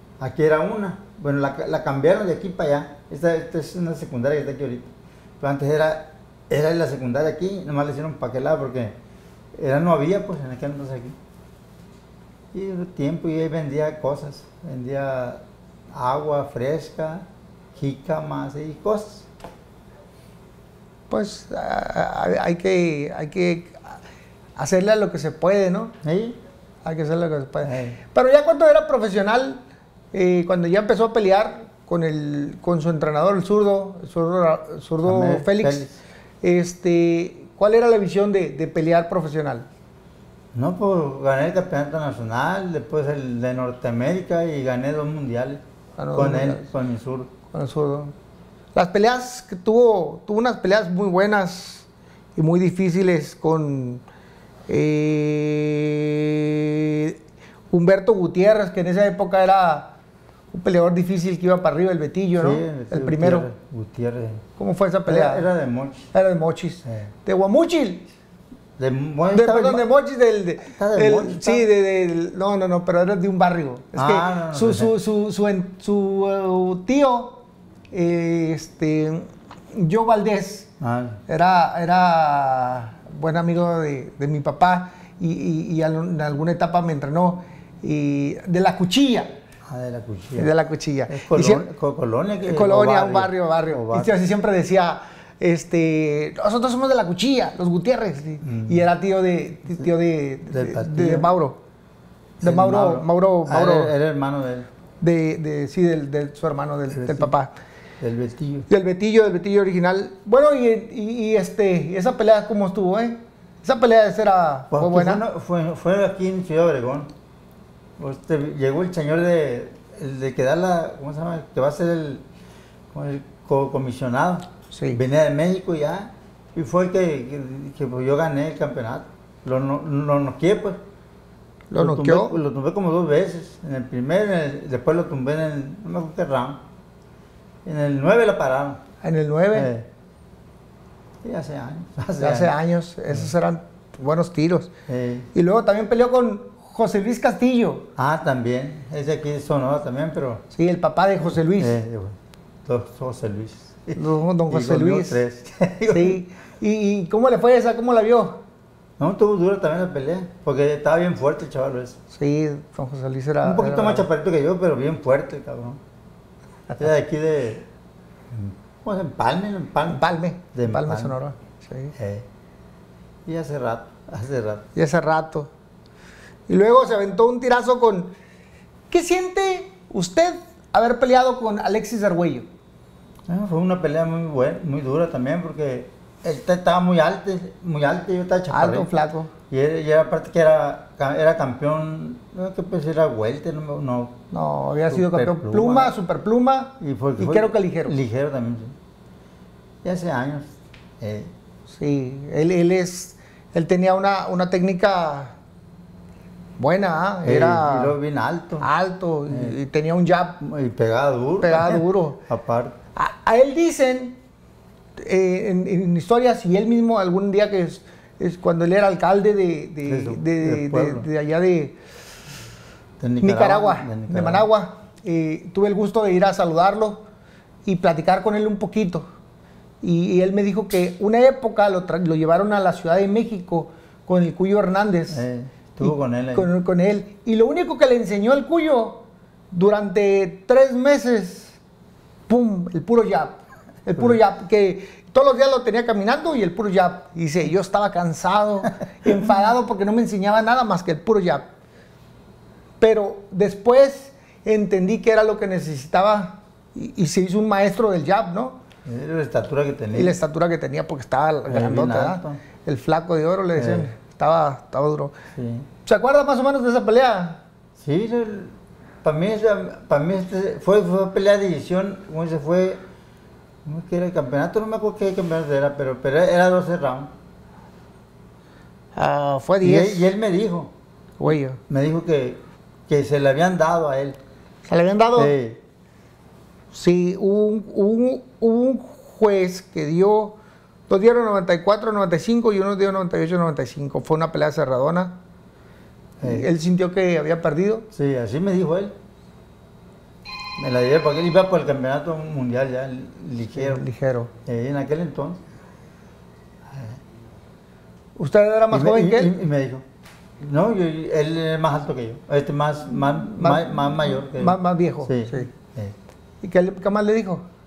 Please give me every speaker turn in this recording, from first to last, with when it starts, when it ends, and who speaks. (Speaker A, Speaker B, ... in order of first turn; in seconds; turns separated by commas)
Speaker A: 0.2-8.9, Speaker A: 9.6-11.2, Speaker A: 12.5-19.3, Speaker B: 21.1-24.0, Speaker B: 24.6-25.9, Speaker A: 26.0-26.4, Speaker B: 26.9-29.6, Speaker A: 27.6-28.0, Speaker B: 30.1-35.8, Speaker A: 35.0-36.0, Speaker B: 36.4-39.6, Speaker A: 40.5-45.6, Speaker B: 46.0-46.7, Speaker A: 46.2-47.3, Speaker B: 47.5-48.1, Speaker B: 48.8-51.9, Speaker B: 52.4-54.0, Speaker B: 54.7-57.2, Speaker B: 57.7-59.9, Speaker B: 60.5-63.5, Speaker A: 62.4-64.4, Speaker B: 64.6-65.5, Speaker A: 65.1-66.1, Speaker B: 66.1-68.1, Speaker A: 66.8-67.1, Speaker A: 68.8-69.9, Speaker B: 69.3-77.4, Speaker A: 70.8-71.7, Speaker A: 74.0-74.9, Speaker B: 77.9-80.7, Speaker A: 80.8-81.2, Speaker B: 81.3-89.3, Speaker A: 89.7-90.5, Speaker B: 90.4-91.7, Speaker A: 91.1-94.1, Speaker B: 92.4-101.6, Speaker A: 98.4-98.8, Speaker A: 100.5-101.3, Speaker B: 102.4-103.9, Speaker A: 102.4-104.7, Speaker B: 105.0-107.5, Speaker A: 106.9-107.3, Speaker A: 108.0-108.7, Speaker B: 108.7-115.2, Speaker A: 114.7-117.1, Speaker A: 118.0-122.2, Speaker A: 122.9-130.8, Speaker B: 124.7-125.0, Speaker B: 131.7-132.4, Speaker A: 131.8-136.6, Speaker A: 137.7-138.8, Speaker B: 139.0-139.7, Speaker A: 139.5-139.9, Speaker A: 141.2-142.5, Speaker B: 142.2-144.7, Speaker A: 144.9-145.3, Speaker B: 145.3-147.9, Speaker A: 148.0-150.4, Speaker B: 150.5-151.8, Speaker A: 151.6-156.2, Speaker B: 154.0-155.2, Speaker B: 155.9-158.4, Speaker A: 159.0-162.0, Speaker B: 162.1-164.1, Speaker A: 163.4-165.8, Speaker A: 166.8-167.7, Speaker A: 168.3-171.2, Speaker B: 169.9-171.9, Speaker A: 172.0-172.3, Speaker A: 173.3-174.7, Speaker B: 174.8-175.5, Speaker B: 176.5-178.1, Speaker B: 178.9-182.5, Speaker A: 183.3-188.9, Speaker B: 188.5-189.3, Speaker A: 189.5-194.2, Speaker B: 194.3-198.0, Speaker A: 194.9-196.0, Speaker A: 196.8-198.7, Speaker A: 199.8-201.3, Speaker B: 201.7-205.3, Speaker B: 206.6-207.9, Speaker A: 207.2-208.7, Speaker B: 208.6-210.4, Speaker A: 210.4-212.8, Speaker B: 211.4-212.2, Speaker B: 213.0-214.2, Speaker B: 215.0-221.8, Speaker A: 219.9-221.1, Speaker A: 223.0-224.5, Speaker B: 223.2-227.0, Speaker B: 227.7-229.1, Speaker B: 229.8-235.2, Speaker A: 235.1-236.5, Speaker B: 235.8-241.6, Speaker B: 242.3-251.5, Speaker B: 252.8-258.6, Speaker A: 258.9-260.2, Speaker B: 259.9-265.1, Speaker A: 261.5-262.4, Speaker A: 263.6-263.9, Speaker A: 265.4-265.7, Speaker B: 265.9-267.4, Speaker A: 267.8-272.8, Speaker A: 273.6-277.1, Speaker B: 279.0-280.1, Speaker A: 279.6-280.7, Speaker B: 281.2-281.6, Speaker A: 281.7-284.2, Speaker B: 284.7-285.3, Speaker A: 285.2-285.6, Speaker B: 286.7-290.4, Speaker B: 290.9-295.2, Speaker A: 296.2-296.5, Speaker B: 296.2-297.9, Speaker A: 297.9-298.9, Speaker A: 300.6-303.9, Speaker B: 303.6-304.3, Speaker A: 304.5-305.4, Speaker A: 306.7-307.0, Speaker B: 308.2-309.3, Speaker A: 308.7-309.8, Speaker A: 310.4-315.9, Speaker B: 313.4-315.5, Speaker B: 316.4-317.4